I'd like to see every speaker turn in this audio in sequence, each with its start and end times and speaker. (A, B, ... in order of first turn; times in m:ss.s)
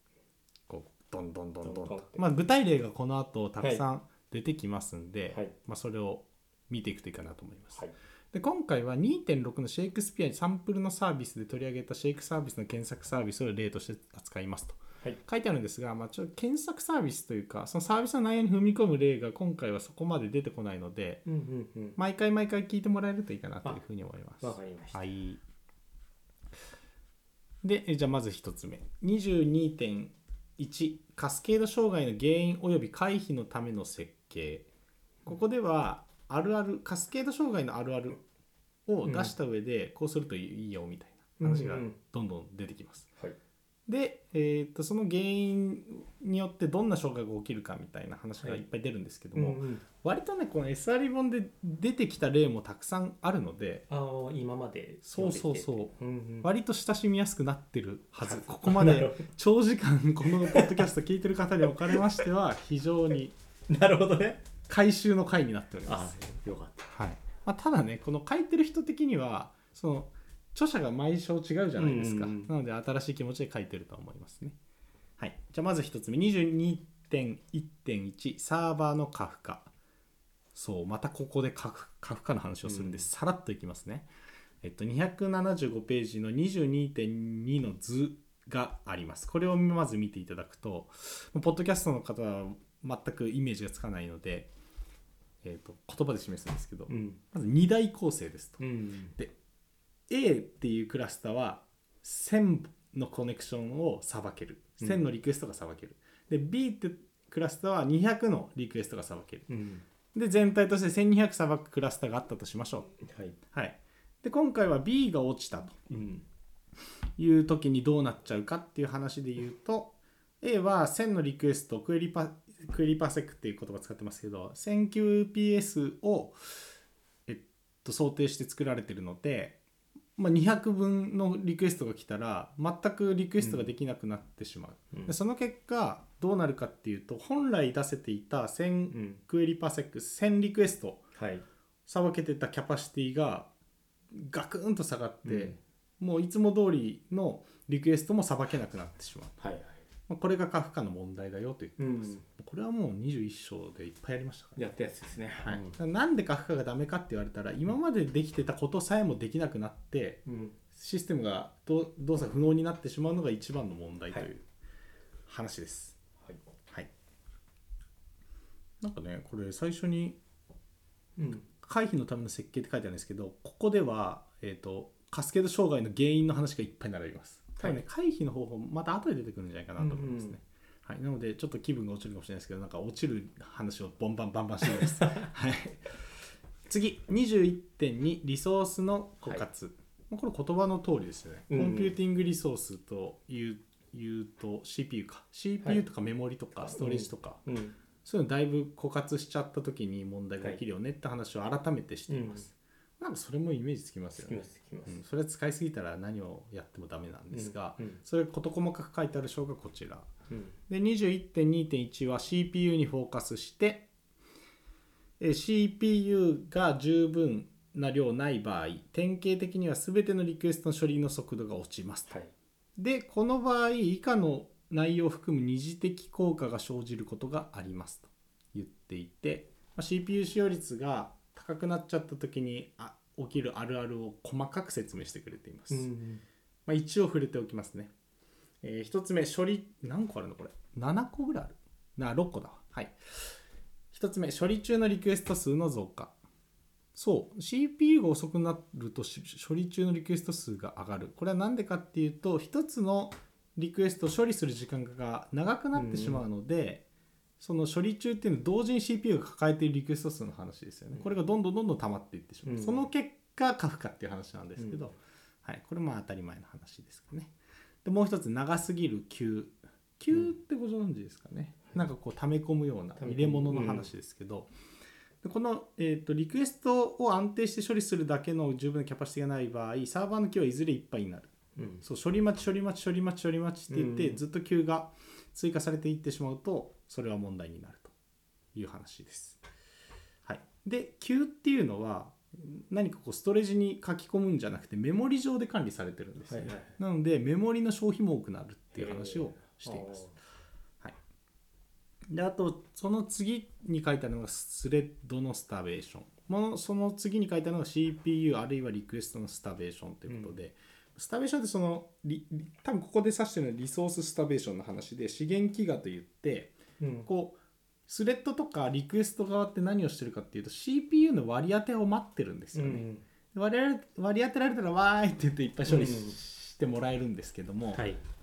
0:00.7-0:21.2 A
0:01.6-0:02.3 B
0:05.3-0:05.6 B
0:21.3-0:22.0 B
0:22.0-0:25.4 A
0:24.4-0:25.1 B
0:27.6-0:34.7 A
0:35.2-0:38.2 A
0:38.9-0:43.1 A
0:39.0-0:39.3 B
0:41.4-0:42.0 B
0:43.9-0:53.9 A
0:48.4-0:48.6 B
0:49.3-0:49.8 B
0:53.9-0:56.5 B
0:55.0-1:03.4 A
0:58.2-0:59.3 B
1:00.4-1:00.8 B
1:03.7-1:04.4 B
1:04.7-1:06.2 A
1:05.9-1:06.9 B
1:06.9-1:14.6 A
1:11.8-1:12.5 B
1:15.2-1:19.7 A
1:20.5-1:24.1 A
1:22.6-1:23.1 B
1:24.6-1:34.5 A
1:35.4-1:38.6 A
1:36.9-1:37.2 B
1:38.6-1:39.2 B
1:40.1-1:49.5 A
1:49.5-1:49.8 B
1:50.1-1:53.0 A
1:53.0-1:53.4 B
1:53.5-1:55.8 A
1:55.9-1:56.2 B
1:57.2-2:06.7 A
2:07.3-2:09.6 A
2:10.2-2:21.0 A
2:13.4-2:13.7 B
2:18.9-2:19.2 B
2:21.2-2:21.4 B
2:21.9-2:23.5 A
2:24.1-2:29.4 A
2:25.2-2:25.6 B
2:29.4-2:29.8 B
2:30.1-2:34.6 A
2:31.8-2:32.2 B
2:34.6-2:35.8 B
2:35.4-2:40.2 A
2:40.3-2:40.6 B
2:40.7-2:44.5 A
2:45.3-2:46.0 A
2:48.8-2:50.2 A
2:51.2-2:51.5 B
2:51.6-3:17.4 A
2:59.8-3:00.4 B
3:04.7-3:05.3 B
3:11.5-3:12.0 B
3:16.7-3:17.8 B
3:18.0-3:30.1 A
3:22.1-3:22.5 B
3:24.2-3:25.0 B
3:27.3-3:28.0 B
3:30.3-3:30.6 B
3:30.7-3:33.9 A
3:35.2-3:42.1 A
3:42.8-3:55.9 A
3:55.7-3:56.2 B
3:56.7-3:57.9 A
3:58.6-4:03.4 A
4:03.9-4:06.2 A
4:07.0-4:16.8 A
4:15.7-4:16.3 B
4:17.4-4:34.5 A
4:22.4-4:22.9 B
4:24.6-4:25.0 B
4:33.0-4:33.9 B
4:35.2-4:41.3 A
4:41.6-4:41.8 B
4:41.8-4:47.9 A
4:43.7-4:44.2 B
4:48.5-4:49.4 A
4:50.2-5:00.0 A
4:56.3-4:56.8 B
4:58.7-5:00.2 B
5:02.1-5:27.8 A
5:10.1-5:10.4 B
5:16.8-5:17.1 B
5:22.5-5:23.0 B
5:25.7-5:26.2 B
5:27.7-5:28.0 B